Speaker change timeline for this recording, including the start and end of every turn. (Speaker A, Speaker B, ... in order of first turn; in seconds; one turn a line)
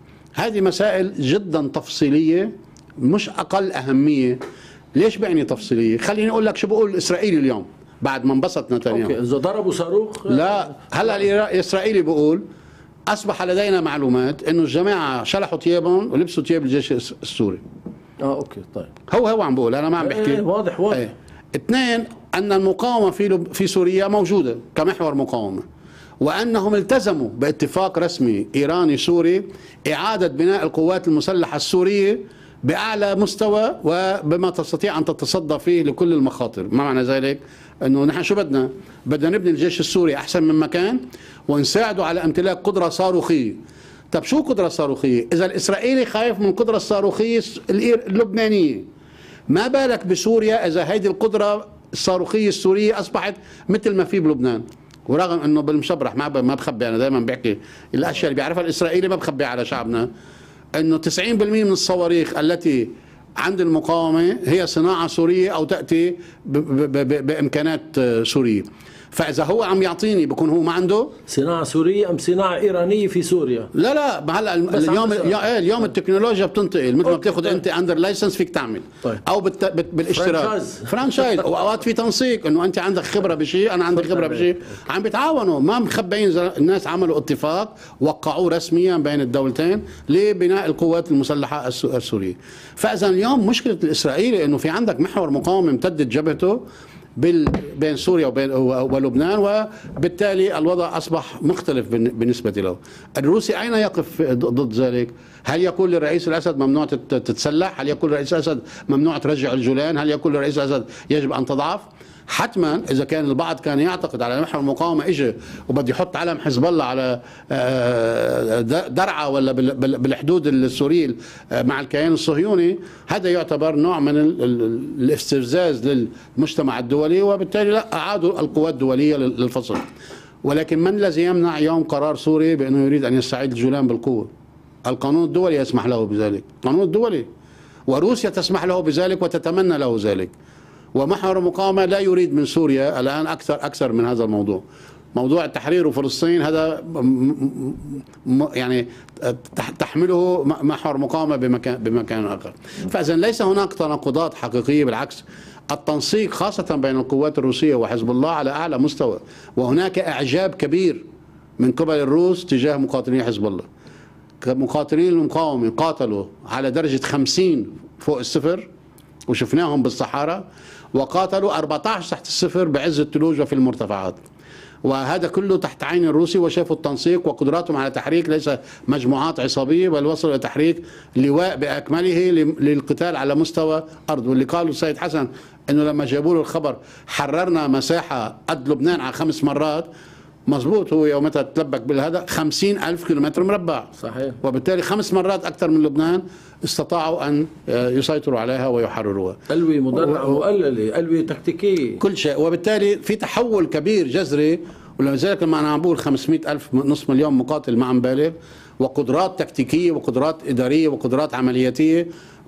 Speaker A: 0.4-4.4
Speaker A: 4.9-9.2
Speaker B: 8.9-10.9
Speaker A: 10.3-12.4
Speaker A: 13.1-17.6
Speaker B: 18.2-18.9
Speaker A: 19.1-25.6
Speaker B: 20.0-21.1
Speaker A: 26.2-43.6
Speaker A: 44.1-48.8
Speaker A: 49.5-60.1
Speaker A: 60.8-71.1
Speaker B: 71.3-73.7
Speaker A: 73.7-96.6
Speaker B: 74.7-75.5
Speaker B: 77.0-77.6
Speaker B: 80.1-81.5
Speaker B: 84.0-84.5
Speaker A: 97.2-129.8
Speaker A: 130.4-134.3
Speaker A: 134.8-137.3
Speaker A: 137.9-140.3
Speaker A: 140.9-144.6
Speaker A: 145.1-161.0
Speaker A: 161.6-163.7
Speaker A: 164.4-168.7
Speaker A: 169.3-174.2
Speaker A: 174.8-189.9
Speaker A: 190.5-193.9
Speaker B: 194.0-194.4
Speaker A: 194.4-199.4
Speaker B: 199.5-202.0
Speaker A: 199.9-200.4
Speaker A: 202.0-212.1